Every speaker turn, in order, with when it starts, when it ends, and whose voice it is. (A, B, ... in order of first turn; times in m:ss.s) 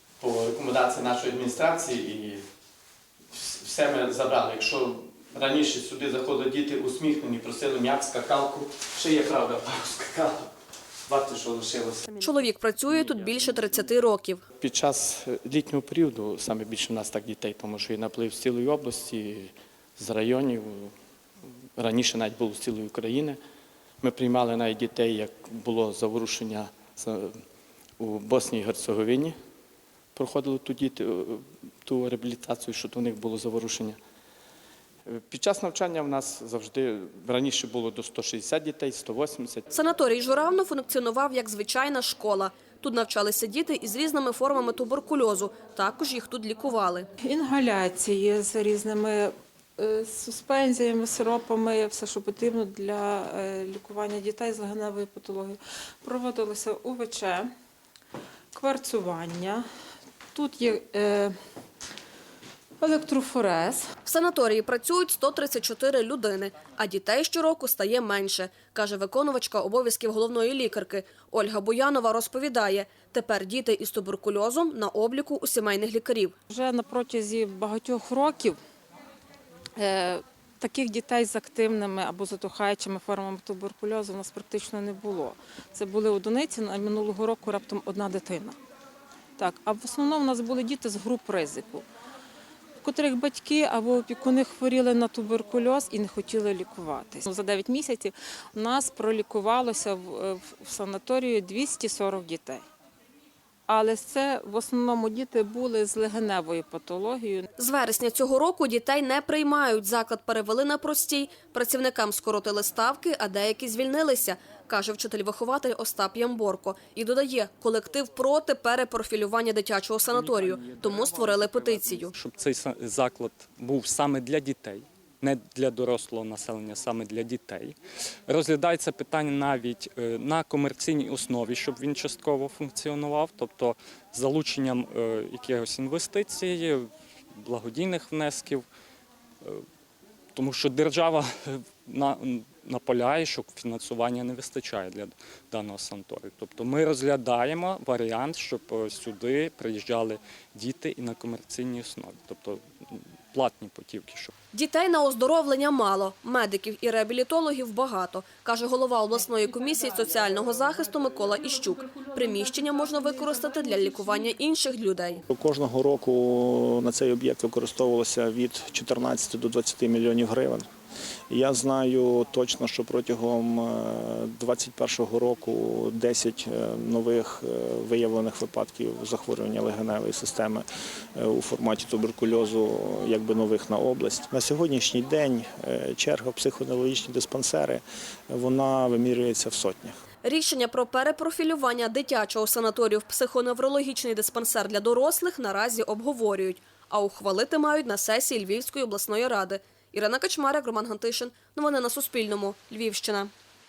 0:00.2-0:02.4 A
0:03.3-0:10.5 A
0:11.1-0:12.1 A
0:12.2-0:14.4 B
0:12.9-0:13.7 A
0:14.6-0:20.9 A
0:21.8-0:23.4 A
0:24.0-0:27.4 A
0:28.0-0:29.4 A
0:30.1-0:34.0 A
0:35.0-0:39.7 A
0:39.7-0:47.1 B
0:47.2-0:57.5 C
0:58.5-0:59.6 C
1:00.3-1:01.3 C
1:02.8-1:03.8 C
1:04.0-1:16.4 B
1:16.5-1:18.6 C
1:19.8-1:28.6 C
1:29.4-1:31.8 C
1:32.8-1:42.6 C
1:43.7-1:47.5 C
1:47.6-2:02.1 B
2:00.1-2:07.8 D
2:08.3-2:16.9 D
2:17.4-2:18.6 D
2:20.3-2:34.3 D
2:34.5-2:45.2 B
2:45.3-2:50.7 E
2:51.3-3:00.6 E
3:01.2-3:10.0 E
3:10.2-3:23.3 B